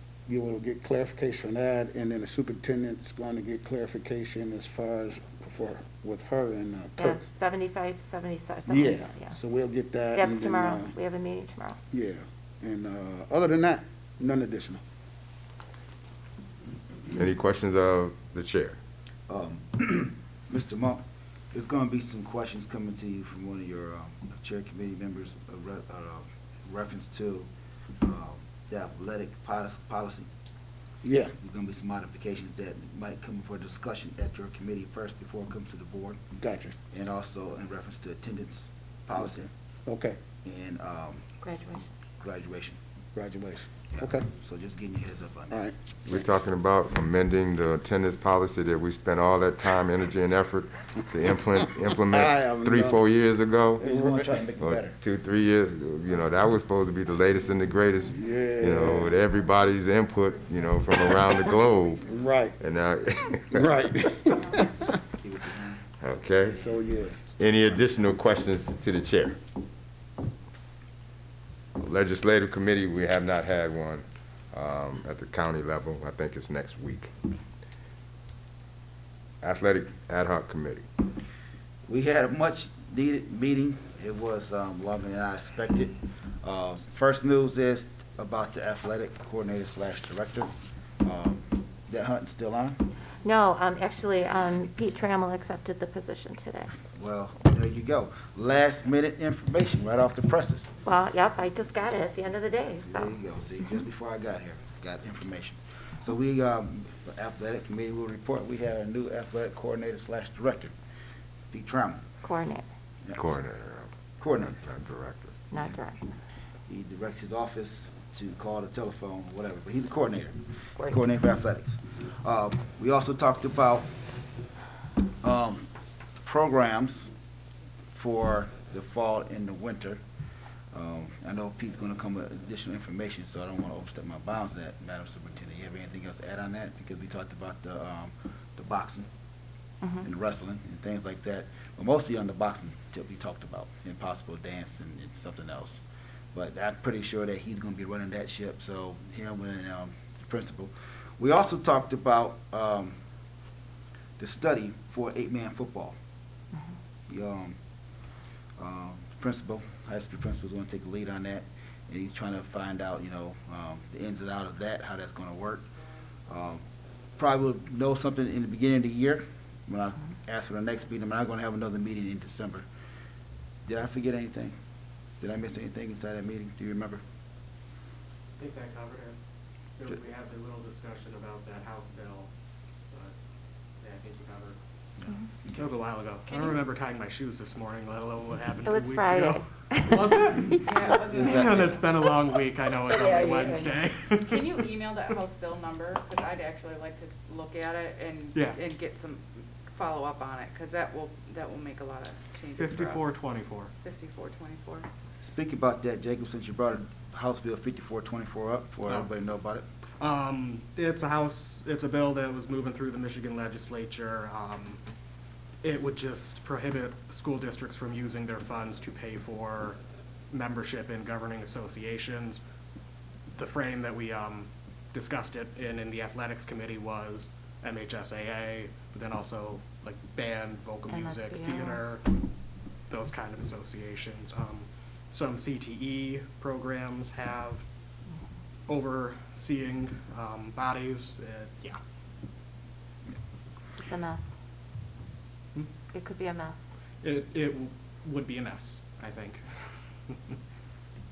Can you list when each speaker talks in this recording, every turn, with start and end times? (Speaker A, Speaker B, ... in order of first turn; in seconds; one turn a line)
Speaker A: 0.3-7.2
Speaker B: 7.0-9.4
Speaker A: 8.7-10.9
Speaker B: 10.1-11.8
Speaker A: 11.9-14.8
Speaker C: 17.1-18.8
Speaker D: 19.3-27.5
Speaker D: 28.0-30.3
Speaker A: 31.0-31.3
Speaker D: 31.4-36.2
Speaker A: 36.4-36.8
Speaker D: 36.9-39.5
Speaker A: 39.9-40.2
Speaker D: 40.4-41.2
Speaker B: 41.4-41.9
Speaker D: 42.2-42.8
Speaker A: 43.2-44.3
Speaker D: 43.9-45.5
Speaker C: 46.1-53.8
Speaker A: 52.1-53.0
Speaker D: 53.8-55.0
Speaker A: 53.8-54.4
Speaker C: 54.6-62.0
Speaker A: 58.1-59.1
Speaker E: 58.9-62.1
Speaker A: 62.0-62.6
Speaker C: 62.6-63.8
Speaker A: 63.5-64.7
Speaker E: 64.2-64.7
Speaker D: 65.2-65.8
Speaker C: 66.0-66.6
Speaker E: 66.3-66.8
Speaker A: 66.5-67.2
Speaker C: 67.4-69.4
Speaker C: 71.8-77.1
Speaker C: 79.4-80.9
Speaker D: 81.9-90.5
Speaker D: 91.0-92.8
Speaker B: 93.2-96.8
Speaker D: 96.9-100.7
Speaker B: 100.8-103.1
Speaker D: 102.8-110.7
Speaker D: 111.5-112.0
Speaker B: 112.2-112.7
Speaker D: 113.0-113.4
Speaker C: 113.2-113.9
Speaker D: 114.2-114.6
Speaker C: 114.5-115.3
Speaker B: 115.5-116.0
Speaker D: 116.7-123.9
Speaker D: 125.2-125.7
Speaker D: 126.2-127.1
Speaker D: 128.0-130.0
Speaker D: 130.7-139.1
Speaker D: 140.0-145.8
Speaker D: 146.3-153.0
Speaker D: 154.2-155.9
Speaker D: 157.1-157.6
Speaker D: 158.6-165.7
Speaker D: 166.3-166.6
Speaker D: 167.2-172.7
Speaker D: 173.7-174.6
Speaker D: 175.2-177.0
Speaker F: 178.4-179.2
Speaker F: 179.8-182.3
Speaker F: 183.8-184.6
Speaker D: 185.0-185.7
Speaker F: 185.5-194.7
Speaker E: 186.3-186.6
Speaker B: 188.7-190.9
Speaker E: 190.6-192.2
Speaker B: 192.9-193.8
Speaker E: 194.2-203.1
Speaker F: 202.6-203.7
Speaker E: 203.8-204.9
Speaker D: 205.2-209.7
Speaker F: 210.0-214.8
Speaker F: 215.6-219.8
Speaker F: 220.3-222.4
Speaker F: 223.3-232.0
Speaker B: 230.9-231.8
Speaker F: 232.9-237.7
Speaker F: 238.7-241.8
Speaker B: 243.8-244.2
Speaker B: 245.9-246.6
Speaker F: 247.0-249.4
Speaker F: 250.1-250.4